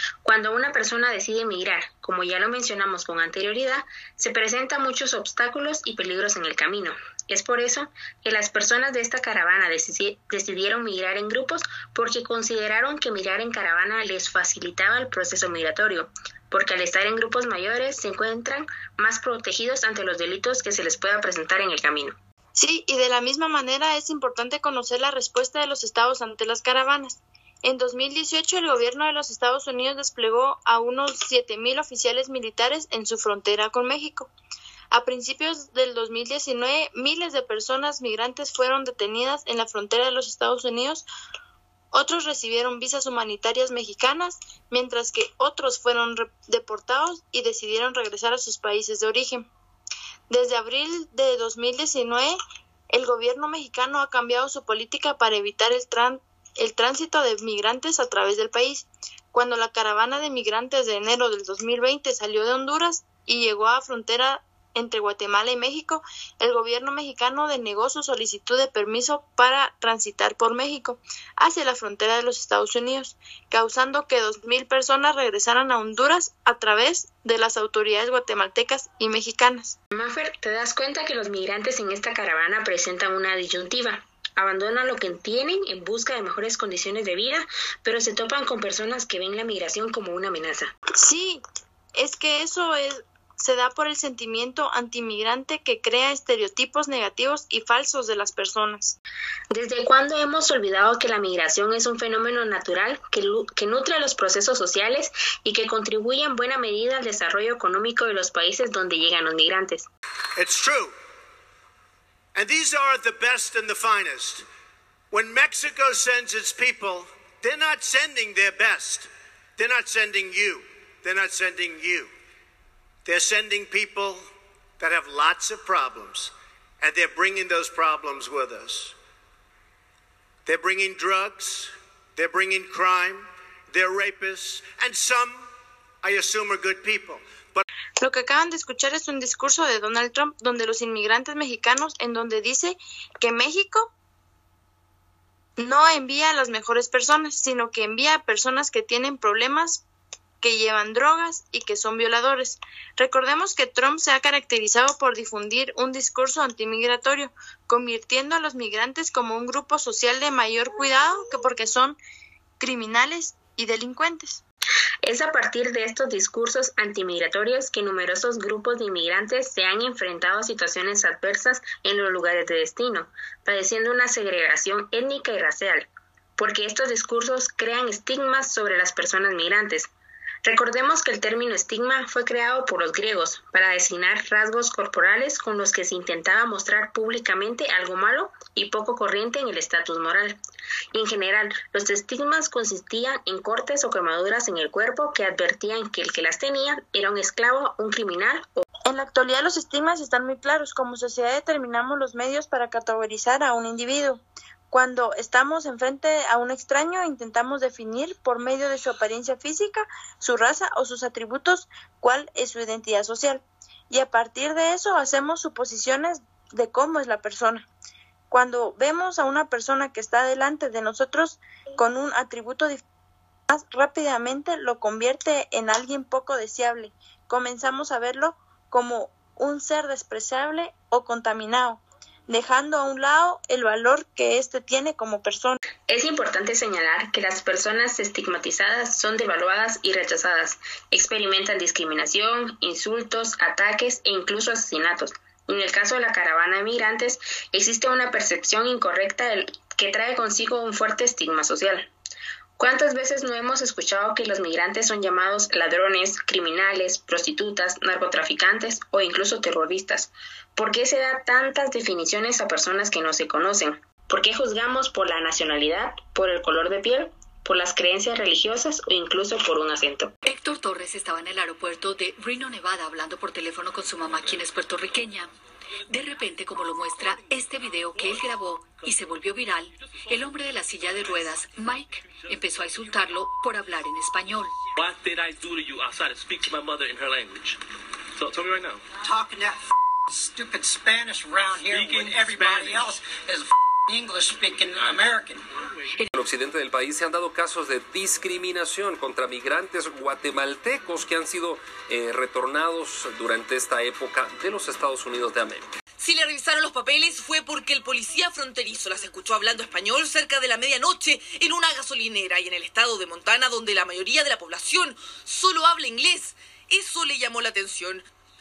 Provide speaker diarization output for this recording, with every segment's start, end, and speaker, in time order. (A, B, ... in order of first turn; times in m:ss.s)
0:00.2-0:22.2 A
0:22.6-0:34.3 B
0:34.9-0:41.0 B
0:41.9-0:49.5 B
0:50.3-0:52.4 B
0:52.9-1:19.8 B
1:19.9-1:30.7 A
1:31.0-1:31.4 B
1:32.0-1:39.0 B
1:39.5-1:49.9 A
1:50.4-1:50.9 C
1:52.3-1:54.4 C
1:55.1-2:02.1 C
2:03.0-2:04.3 C
2:04.8-2:08.9 C
2:10.4-2:15.5 C
2:16.0-2:17.6 C
2:18.0-2:23.9 B
2:25.6-2:29.8 B
2:30.4-2:42.0 B
2:42.6-2:44.4 B
2:45.0-2:59.9 A
3:00.4-3:10.4 A
3:10.9-3:18.6 A
3:18.8-3:37.6 B
3:38.3-3:42.8 B
3:43.5-3:55.6 B
3:55.9-4:11.9 A
4:12.6-4:30.1 A
4:30.2-4:35.3 D
4:35.9-4:44.5 D
4:44.8-4:47.6 E
4:49.0-4:55.4 F
4:56.1-5:05.7 G
5:06.0-5:18.0 H